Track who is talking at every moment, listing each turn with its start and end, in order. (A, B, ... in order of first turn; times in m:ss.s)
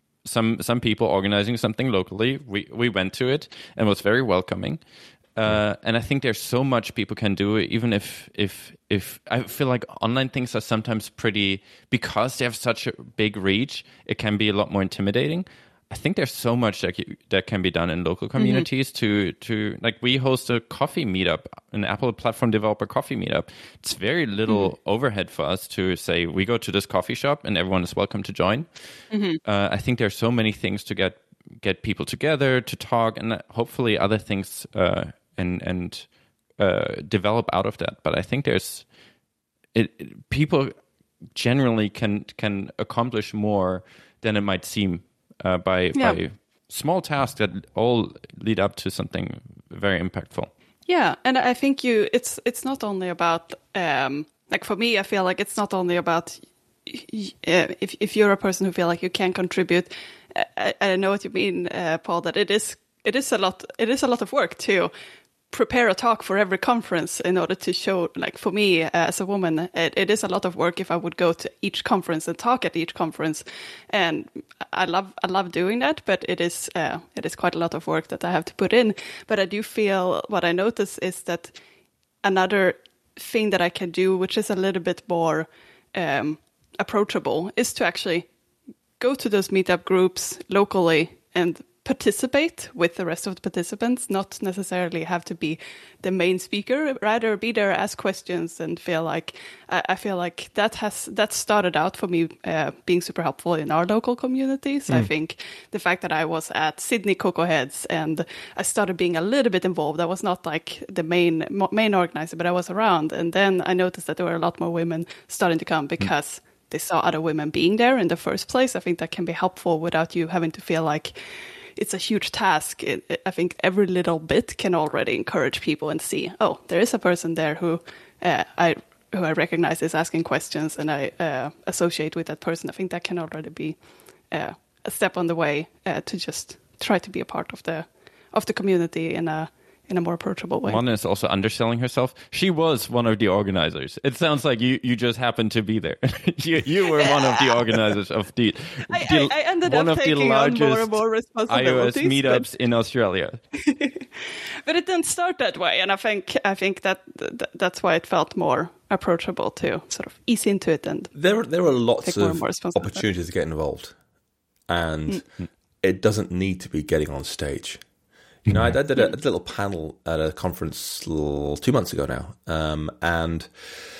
0:00.2-0:04.8 A
0:05.3-0:28.7 A
0:18.4-0:18.6 B
0:29.1-0:29.4 B
0:29.4-0:38.8 A
0:39.7-0:40.7 A
0:41.3-0:50.5 A
0:45.9-0:46.2 B
0:50.9-1:04.9 B
1:05.5-1:21.5 B
1:22.2-1:28.3 B
1:29.0-2:01.1 B
2:01.8-2:13.8 B
2:14.3-2:20.8 B
2:20.7-2:31.0 A
2:26.9-2:27.6 B
2:28.9-2:32.4 B
2:31.5-2:33.4 A
2:33.6-2:41.1 B
2:41.1-2:44.0 C
2:42.0-2:43.0 B
2:44.7-2:45.2 C
2:45.8-2:47.8 C
2:48.5-2:53.5 C